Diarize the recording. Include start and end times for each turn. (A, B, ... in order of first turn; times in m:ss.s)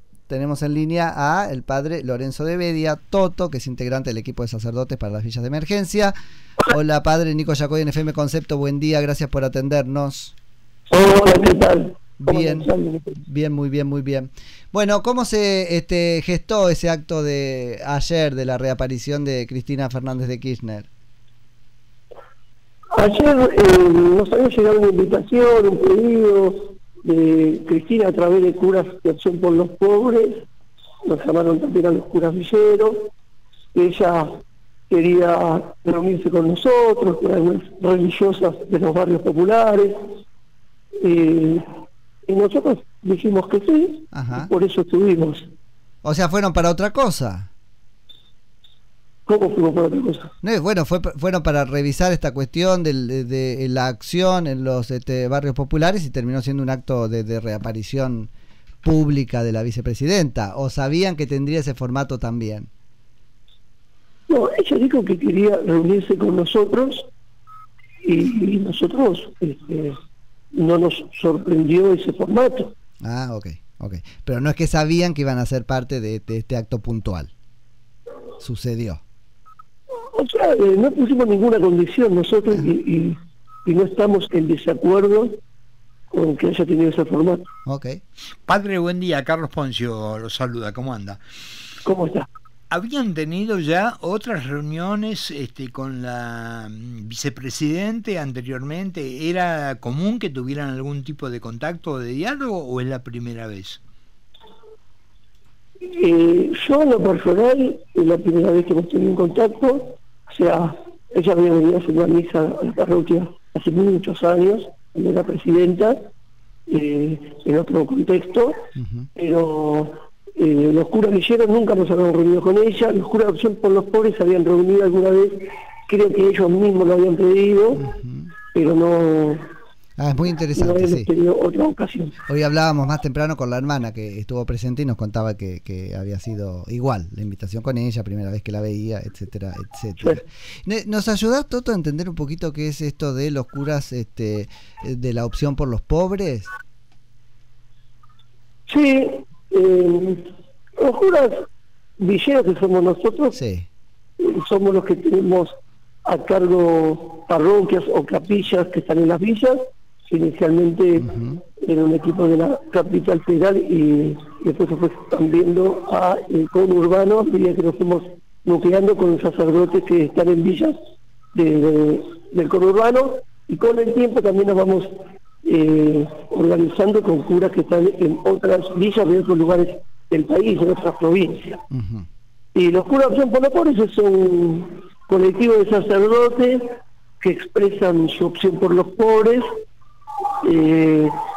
0:00.3-0:06.1 A
0:06.7-0:10.3 A
0:10.9-0:13.2 B
0:12.2-0:20.9 A
0:22.9-0:30.4 B
0:31.0-0:33.1 B
0:33.7-0:40.1 B
0:41.0-0:41.7 B
0:42.3-0:45.5 B
0:44.1-0:44.5 A
0:46.0-0:47.5 A
0:49.3-0:50.3 B
0:50.4-0:58.3 A
0:58.8-1:02.7 A
1:04.3-1:07.1 B
1:08.0-1:10.0 B
1:10.5-1:12.7 B
1:13.0-1:17.3 A
1:18.4-1:19.0 A
1:20.0-1:25.4 B
1:26.1-1:27.5 B
1:27.6-1:28.0 A
1:28.5-1:31.2 C
1:31.8-1:32.3 B
1:32.7-1:43.8 C
1:45.9-1:56.0 B
1:56.7-1:58.6 B
1:58.8-1:59.1 A
1:59.2-2:07.8 B
2:07.8-2:08.3 A
2:08.5-2:09.5 B
2:10.0-2:11.1 A
2:10.6-2:12.1 B
2:12.3-2:26.5 A
2:28.7-2:31.5 B
2:32.0-2:33.3 B
2:33.3-2:33.6 A
2:34.2-2:41.0 B
2:41.0-2:41.4 A
2:41.6-2:50.8 B
2:51.3-3:01.6 B
3:01.7-3:02.1 A
3:02.5-3:09.5 B
3:10.4-3:11.2 B